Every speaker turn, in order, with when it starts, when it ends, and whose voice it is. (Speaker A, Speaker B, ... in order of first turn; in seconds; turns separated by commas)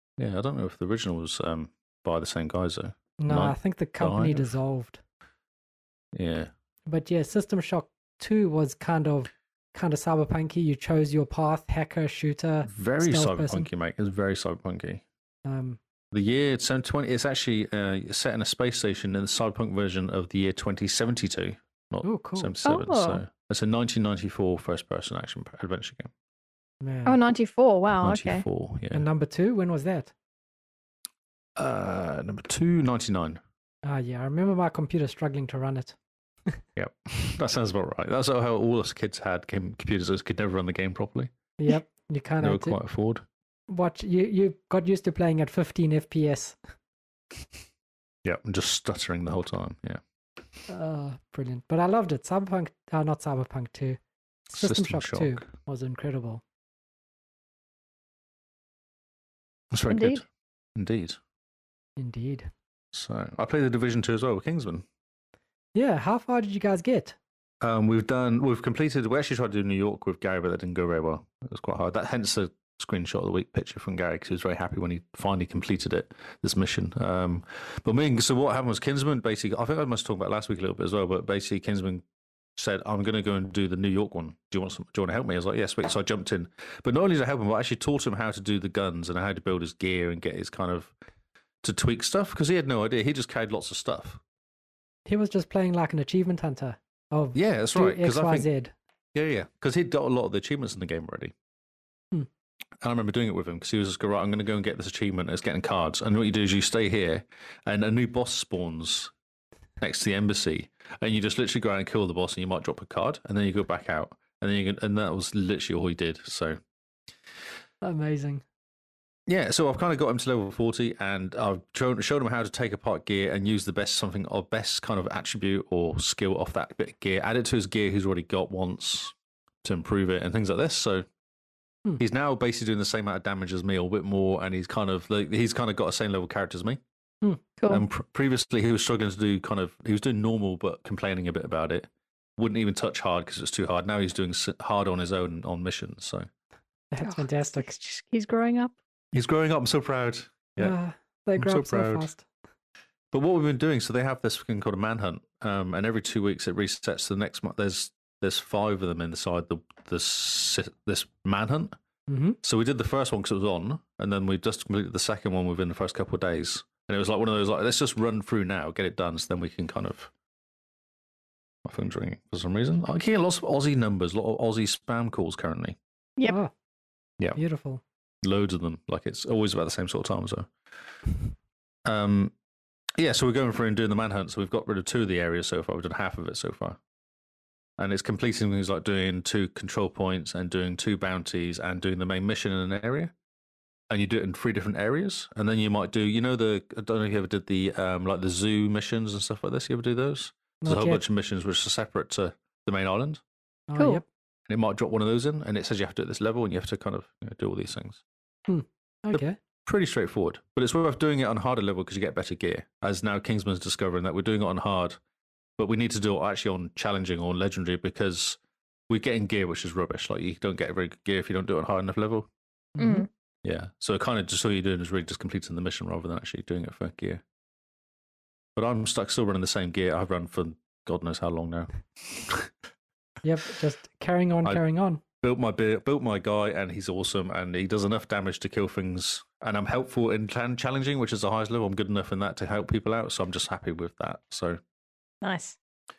Speaker A: 0.2-4.5, Speaker B: 3.2-5.0, Speaker A: 6.1-6.5, Speaker B: 6.9-13.7, Speaker A: 12.6-15.0, Speaker B: 15.4-15.8, Speaker A: 16.1-26.1, Speaker B: 22.0-22.6, Speaker C: 22.6-23.2, Speaker B: 26.8-27.2, Speaker C: 27.0-28.4, Speaker A: 28.0-29.0, Speaker B: 28.9-30.1, Speaker A: 31.6-33.4, Speaker B: 33.8-36.0, Speaker A: 36.8-41.3, Speaker B: 41.6-42.8, Speaker A: 42.4-43.2, Speaker B: 43.7-46.6, Speaker A: 48.2-50.0, Speaker B: 50.7-54.0, Speaker A: 54.5-55.5, Speaker B: 54.5-56.4, Speaker A: 59.7-60.2, Speaker C: 59.9-60.2, Speaker A: 60.8-61.2, Speaker B: 62.0-62.5, Speaker A: 62.9-64.8, Speaker B: 65.7-67.2, Speaker A: 67.6-82.0, Speaker A: 82.5-90.9, Speaker A: 91.6-94.2, Speaker B: 95.0-98.7, Speaker A: 97.3-98.5, Speaker A: 99.1-101.3, Speaker A: 102.8-109.1, Speaker A: 109.8-116.6, Speaker B: 117.8-118.4, Speaker A: 119.3-131.1, Speaker A: 132.0-136.8, Speaker A: 137.7-146.3, Speaker B: 146.9-147.7, Speaker C: 147.0-148.7, Speaker A: 149.1-150.7, Speaker B: 150.6-152.2, Speaker A: 151.4-152.1, Speaker A: 153.1-161.7, Speaker B: 162.1-162.4, Speaker A: 162.4-170.1, Speaker A: 171.6-175.8, Speaker B: 176.2-176.5, Speaker B: 177.3-177.8, Speaker A: 178.2-180.5, Speaker A: 181.8-182.3, Speaker A: 183.0-186.8, Speaker A: 187.8-193.1, Speaker A: 193.9-203.2, Speaker B: 200.6-201.0, Speaker B: 203.7-204.0, Speaker C: 203.8-204.0, Speaker A: 204.5-208.0, Speaker B: 208.5-209.4, Speaker A: 209.1-215.0, Speaker A: 215.6-222.3, Speaker B: 222.8-223.1, Speaker C: 222.8-223.1, Speaker A: 223.4-227.2, Speaker A: 228.6-232.5, Speaker B: 233.2-235.0, Speaker A: 235.2-244.6, Speaker C: 245.2-245.6